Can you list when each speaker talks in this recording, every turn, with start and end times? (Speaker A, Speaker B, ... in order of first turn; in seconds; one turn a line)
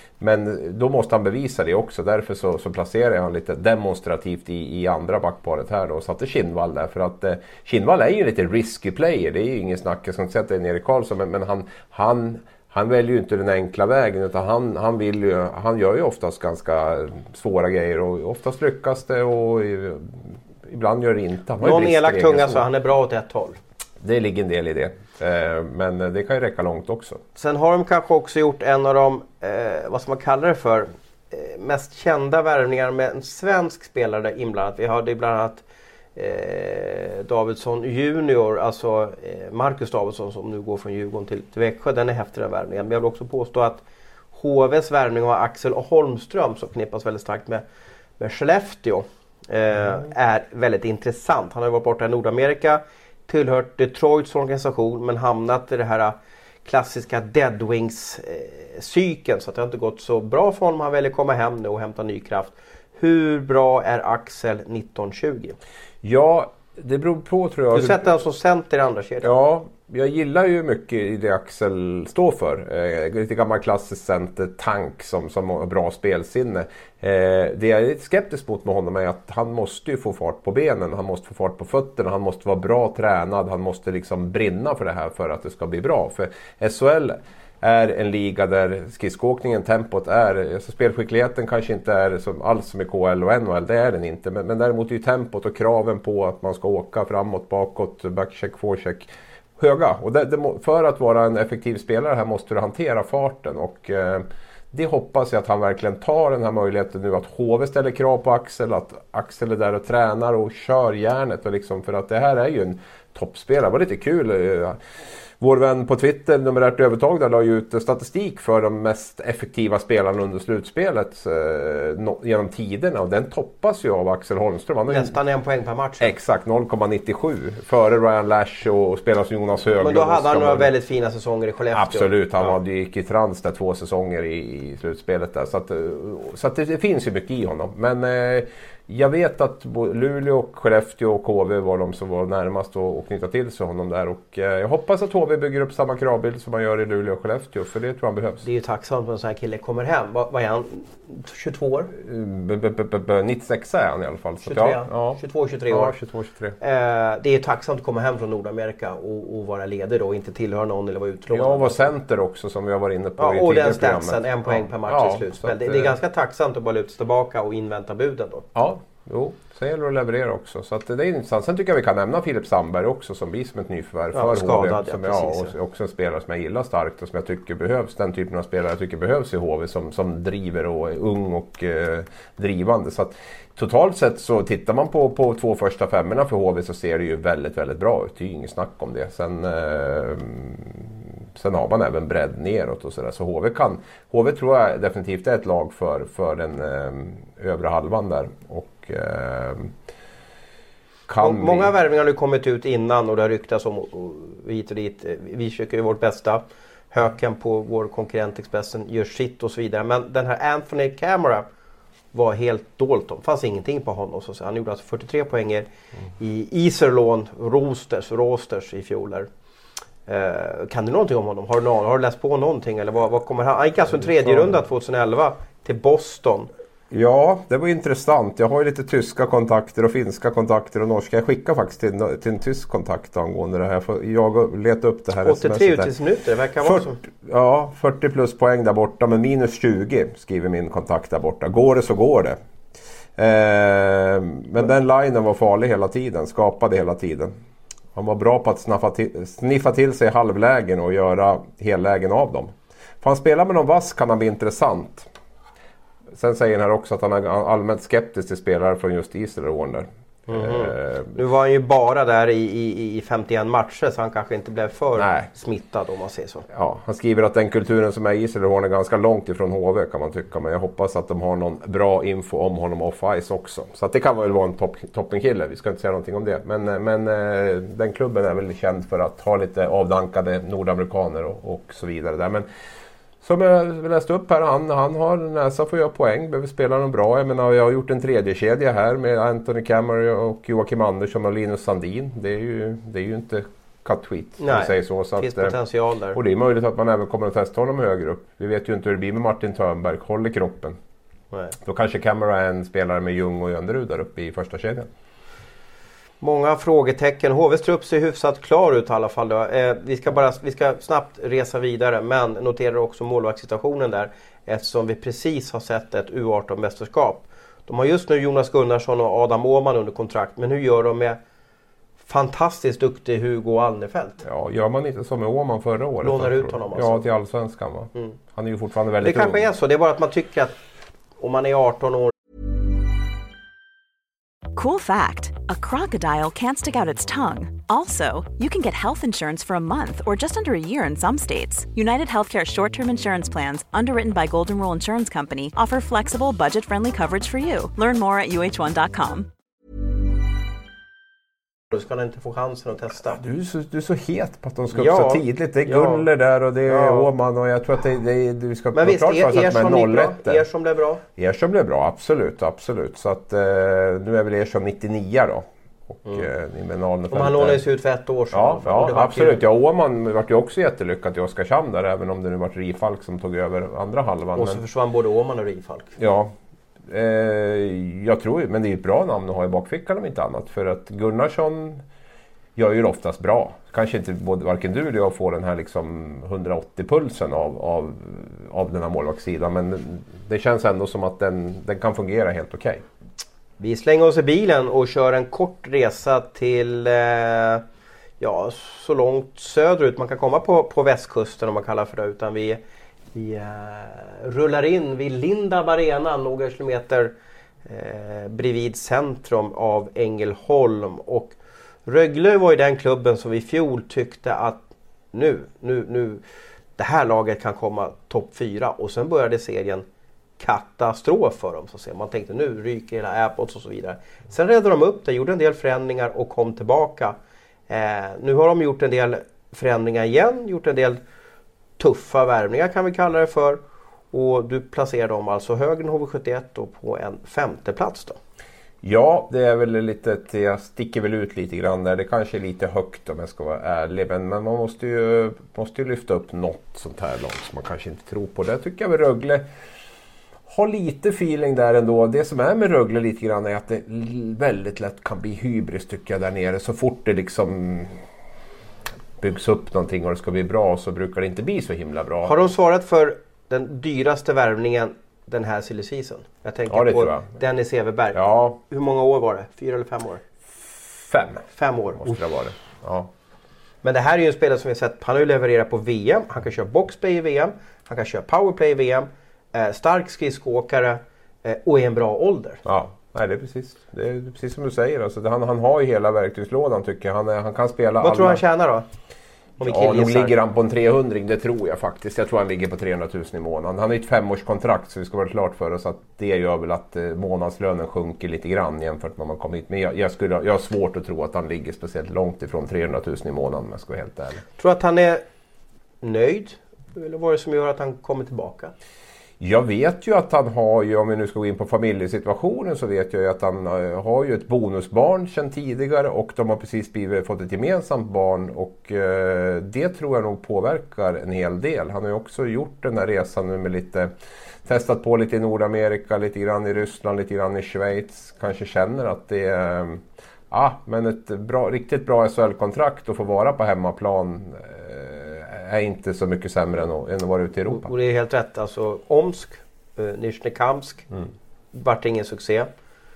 Speaker A: 0.2-22.6
Speaker B: 21.6-23.6
Speaker A: 24.0-27.2
Speaker B: 27.4-35.6
Speaker B: 36.1-43.8
Speaker B: 44.3-47.6
Speaker B: 48.2-65.5
Speaker A: 66.0-68.0
Speaker B: 67.7-69.3
Speaker A: 69.2-114.8
Speaker A: 115.4-125.1
Speaker B: 124.9-126.1
Speaker A: 126.0-130.7
Speaker B: 129.8-132.5
Speaker A: 131.7-148.4
Speaker B: 148.4-151.9
Speaker A: 151.9-156.6
Speaker B: 154.4-155.9
Speaker B: 156.6-161.9
Speaker A: 161.3-165.9
Speaker B: 163.2-168.5
Speaker A: 168.5-199.7
Speaker B: 174.1-175.5
Speaker A: 201.1-201.7
Speaker B: 201.2-211.4
Speaker B: 212.1-215.7
Speaker B: 216.2-219.3
Speaker B: 220.1-226.5
Speaker A: 224.2-224.6
Speaker A: 226.9-235.9
Speaker B: 235.2-237.0
Speaker A: 236.6-242.4
Speaker A: 243.2-247.3
Speaker A: 247.9-255.1
Speaker A: 256.1-261.2
Speaker B: 260.3-266.5
Speaker A: 264.9-265.3
Speaker A: 266.5-282.4
Speaker A: 283.2-295.6
Speaker B: 294.4-296.2
Speaker A: 296.1-300.8
Speaker A: 301.6-304.9
Speaker B: 306.2-321.2
Speaker B: 322.0-324.2
Speaker A: 324.2-329.5
Speaker B: 326.0-327.0
Speaker B: 329.0-330.6
Speaker B: 331.2-332.1
Speaker C: 334.5-349.3
Speaker B: 351.7-353.2
Speaker A: 353.0-360.4
Speaker B: 354.7-356.1
Speaker B: 356.6-357.1
Speaker B: 358.7-361.0
Speaker A: 361.1-367.6
Speaker B: 367.1-369.4
Speaker A: 368.3-374.6
Speaker B: 374.4-376.0
Speaker A: 376.0-376.3
Speaker A: 376.9-381.8
Speaker A: 382.6-392.8
Speaker B: 393.6-397.6
Speaker B: 398.2-402.6
Speaker B: 403.1-407.1
Speaker B: 407.6-416.2
Speaker B: 416.8-419.8
Speaker B: 420.4-427.1
Speaker B: 427.7-431.0
Speaker B: 431.8-433.6
Speaker B: 434.1-438.2
Speaker A: 438.8-449.4
Speaker A: 450.5-458.0
Speaker A: 459.2-462.4
Speaker B: 462.2-470.2
Speaker A: 466.7-467.3
Speaker A: 468.1-468.6
Speaker A: 470.7-471.4
Speaker B: 471.5-472.1
Speaker A: 472.0-473.1
Speaker B: 473.8-482.6
Speaker A: 482.6-488.4
Speaker B: 488.0-488.9
Speaker B: 489.6-490.3
Speaker A: 489.6-504.4
Speaker B: 504.6-505.2
Speaker B: 506.0-508.7
Speaker A: 509.4-524.1
Speaker A: 524.6-537.9
Speaker B: 537.7-541.1
Speaker B: 541.7-542.7